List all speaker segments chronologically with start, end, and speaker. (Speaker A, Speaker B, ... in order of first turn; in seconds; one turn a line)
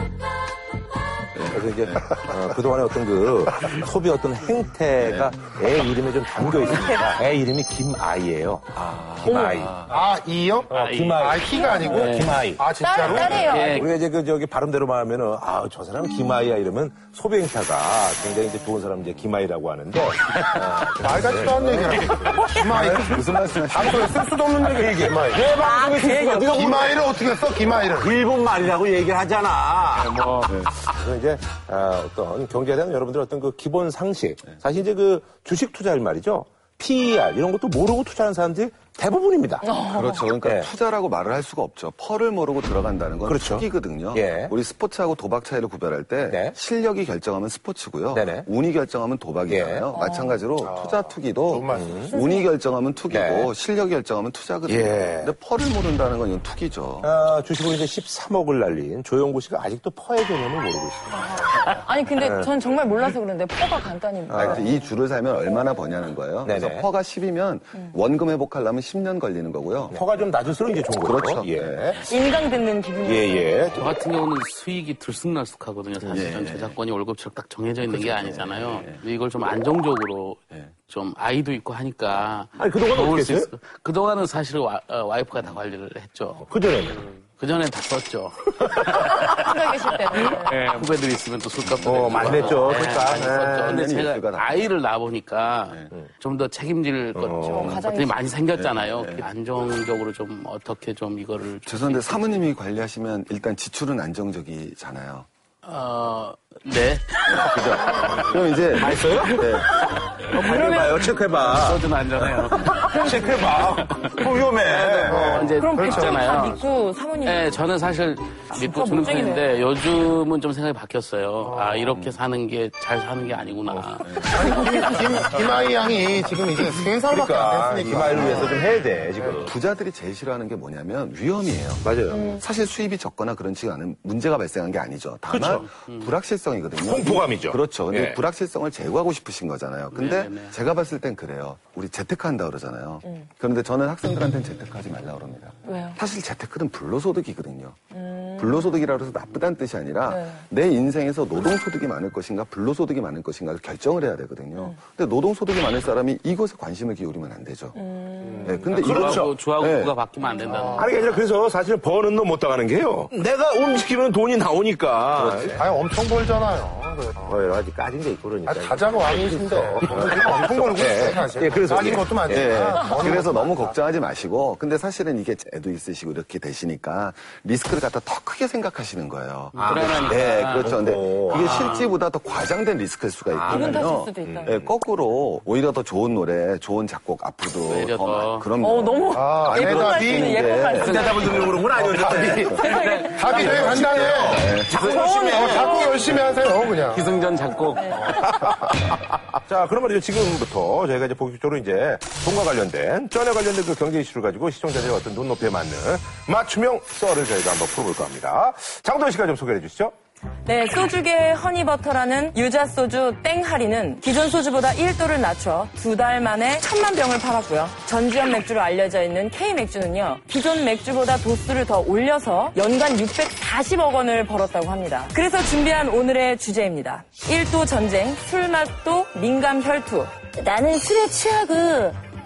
Speaker A: 1.3-2.2
Speaker B: 1.5-9.9
Speaker A: 5.0-5.4
Speaker A: 8.9-9.9
Speaker C: 9.2-9.7
Speaker D: 9.9-13.6
Speaker B: 10.7-23.0
Speaker E: 10.7-11.2
Speaker C: 11.5-12.0
Speaker E: 11.8-12.4
Speaker C: 12.8-13.9
Speaker E: 13.4-13.9
Speaker D: 21.0-25.6
Speaker A: 22.7-24.1
Speaker B: 23.9-30.2
Speaker C: 25.6-26.9
Speaker D: 26.4-28.1
Speaker E: 30.1-30.5
Speaker B: 30.8-39.7
Speaker C: 39.6-40.3
Speaker A: 39.9-57.1
Speaker B: 40.4-40.7
Speaker B: 43.2-44.5
Speaker B: 46.3-46.5
Speaker B: 48.1-48.5
Speaker B: 49.5-49.9
Speaker C: 49.9-50.4
Speaker D: 50.6-52.2
Speaker B: 51.7-52.1
Speaker C: 52.1-52.5
Speaker B: 53.1-53.5
Speaker B: 54.7-55.3
Speaker B: 57.0-62.5
Speaker C: 61.3-64.9
Speaker B: 64.3-64.6
Speaker A: 64.3-70.0
Speaker B: 66.4-66.9
Speaker B: 69.9-72.0
Speaker A: 71.0-72.2
Speaker C: 72.0-73.8
Speaker B: 73.0-73.9
Speaker E: 73.8-86.5
Speaker A: 76.0-76.8
Speaker A: 77.8-79.0
Speaker B: 82.6-83.5
Speaker B: 86.4-87.0
Speaker E: 87.1-102.4
Speaker C: 89.1-90.7
Speaker A: 91.7-94.6
Speaker B: 91.8-93.7
Speaker B: 97.2-97.7
Speaker C: 97.4-98.2
Speaker A: 98.5-99.2
Speaker A: 101.6-105.3
Speaker E: 105.6-109.7
Speaker A: 107.3-109.7
Speaker B: 108.8-115.5
Speaker C: 110.3-111.1
Speaker E: 111.2-116.6
Speaker C: 112.9-113.6
Speaker D: 115.0-116.6
Speaker C: 115.5-117.6
Speaker E: 117.2-124.8
Speaker C: 118.5-119.6
Speaker D: 121.4-122.0
Speaker A: 121.9-122.2
Speaker A: 124.0-124.4
Speaker D: 124.3-129.5
Speaker A: 125.8-126.8
Speaker B: 126.7-129.5
Speaker A: 128.1-128.7
Speaker A: 129.3-147.8
Speaker B: 131.8-132.3
Speaker C: 132.1-132.4
Speaker B: 135.3-135.6
Speaker E: 135.6-136.1
Speaker B: 136.8-138.2
Speaker E: 139.9-140.6
Speaker C: 145.6-146.0
Speaker C: 147.9-148.8
Speaker A: 148.3-157.8
Speaker C: 150.1-150.4
Speaker C: 157.7-158.6
Speaker D: 158.2-158.5
Speaker A: 158.4-159.9
Speaker B: 158.6-159.4
Speaker E: 158.8-161.2
Speaker C: 160.2-160.5
Speaker D: 160.4-161.0
Speaker B: 160.8-165.6
Speaker A: 165.2-165.5
Speaker D: 165.6-167.4
Speaker B: 167.2-172.8
Speaker D: 168.4-173.8
Speaker A: 172.3-191.7
Speaker E: 179.5-181.9
Speaker B: 179.6-181.6
Speaker B: 183.3-184.7
Speaker C: 183.5-184.5
Speaker E: 187.6-188.5
Speaker C: 188.6-191.4
Speaker D: 189.1-190.4
Speaker E: 190.7-191.6
Speaker B: 190.8-192.6
Speaker D: 191.7-192.5
Speaker E: 192.3-193.7
Speaker A: 192.4-192.7
Speaker C: 192.5-196.2
Speaker D: 193.1-197.1
Speaker B: 193.4-195.8
Speaker A: 193.8-194.8
Speaker E: 196.9-198.0
Speaker C: 197.7-198.2
Speaker B: 197.9-209.9
Speaker C: 210.4-232.0